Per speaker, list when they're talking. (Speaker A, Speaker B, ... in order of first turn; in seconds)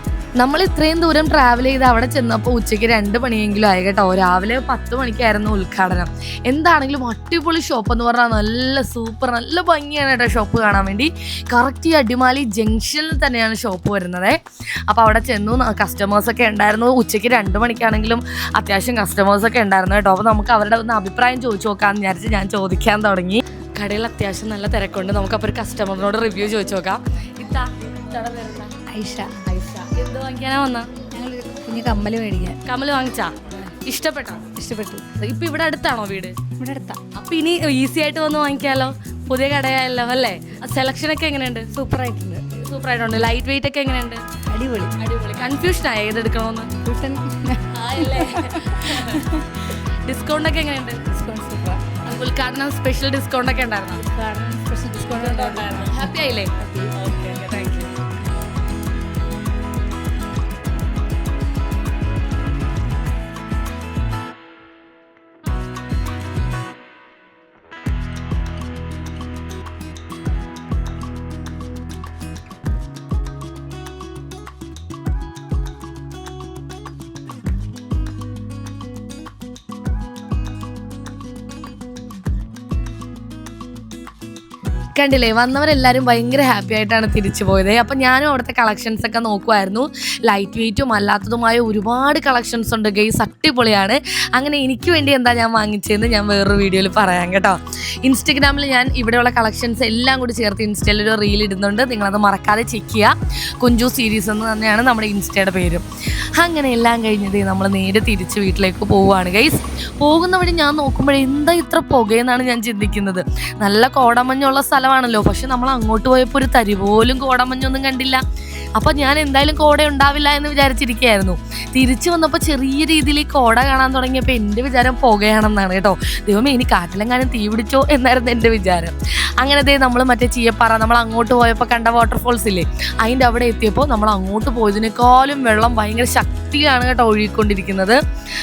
Speaker A: 0.4-28.8, 29.4-30.9, 32.6-36.5, 37.1-44.2, 45.0-46.7, 47.7-51.2, 52.0-54.1, 55.1-57.9, 84.9-105.8, 106.4-118.2, 118.8-138.0
Speaker B: 28.9-29.4, 31.1-32.6, 34.6-35.1, 36.6-37.0, 41.9-42.4, 44.5-44.9, 46.8-49.3, 51.1-51.8, 54.0-56.9